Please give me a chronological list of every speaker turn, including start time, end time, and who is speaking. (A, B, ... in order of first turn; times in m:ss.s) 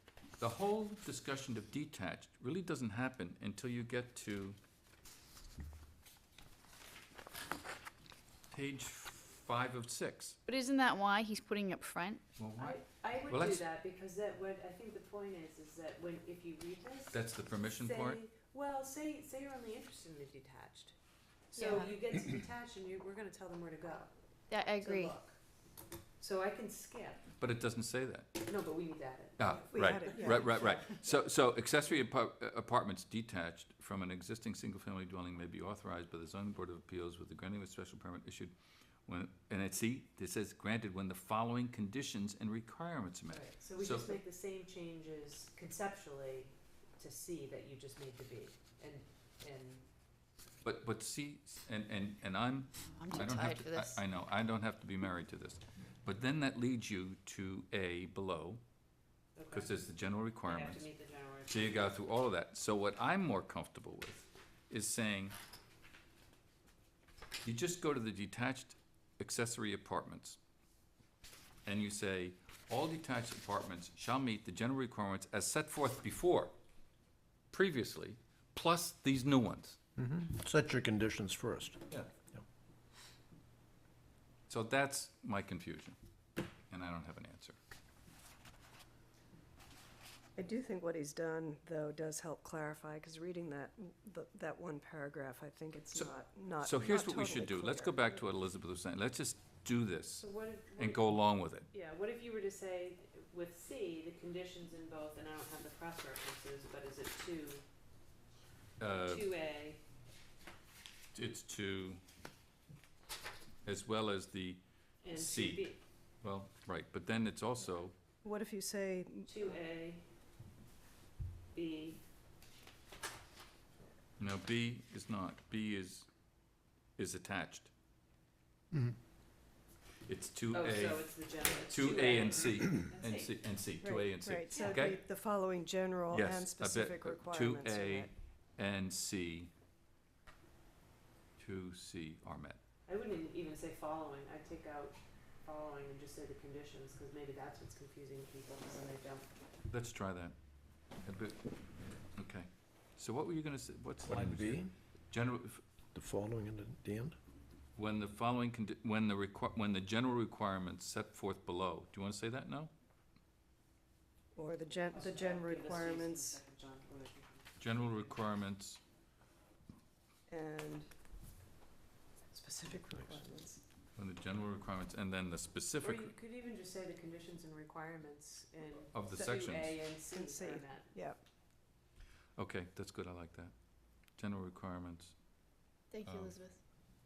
0:00.4-0:04.6 A
0:08.5-0:10.4 A
0:10.5-0:12.2 B
0:12.4-0:13.6 A
0:12.6-0:20.9 C
0:17.1-0:18.2 A
0:21.5-0:24.1 C
0:21.6-0:21.9 B
0:24.5-0:25.1 B
0:24.8-0:25.4 C
0:26.2-0:27.2 C
0:27.4-0:28.4 A
0:28.4-0:30.9 C
0:29.4-0:38.5 A
0:29.7-0:30.9 D
0:39.0-0:44.2 A
0:43.3-0:49.8 C
0:50.6-0:58.6 A
0:52.8-0:54.0 B
0:59.4-0:59.8 C
0:59.5-1:00.8 A
1:00.4-1:01.9 C
1:01.5-1:05.4 A
1:07.4-1:10.4 A
1:11.7-1:16.5 A
1:17.5-1:19.8 A
1:20.0-1:22.4 E
1:24.5-1:26.0 A
1:26.7-1:27.6 A
1:30.4-1:38.1 D
1:35.9-1:41.7 A
1:40.2-1:41.2 C
1:41.7-1:47.6 C
1:48.8-1:49.2 A
1:48.9-1:49.8 C
1:51.1-1:52.0 A
1:53.7-1:55.7 A
1:55.0-1:55.8 C
1:56.2-1:57.9 A
1:58.2-1:59.6 D
1:59.3-2:00.0 C
2:01.5-2:02.0 C
2:04.2-2:06.1 A
2:07.0-2:07.7 A
2:10.1-2:15.0 A
2:10.5-2:13.4 C
2:13.8-2:18.1 D
2:14.5-2:14.9 C
2:16.1-2:19.5 A
2:21.4-2:22.6 A
2:22.9-2:29.3 C
2:29.7-2:30.3 A
2:31.0-2:31.4 A
2:32.2-2:35.6 A
2:34.0-2:34.7 E
2:36.0-2:37.2 E
2:37.8-2:42.7 A
2:44.3-2:46.4 D
2:44.9-2:48.1 C
2:47.6-2:48.8 A
2:50.3-2:50.9 D
2:52.3-2:53.6 D
2:54.0-2:56.1 A
2:55.8-3:01.0 C
2:58.9-2:59.8 A
3:00.1-3:01.2 D
3:02.4-3:03.5 A
3:04.2-3:05.2 A
3:05.9-3:06.6 B
3:06.0-3:06.3 A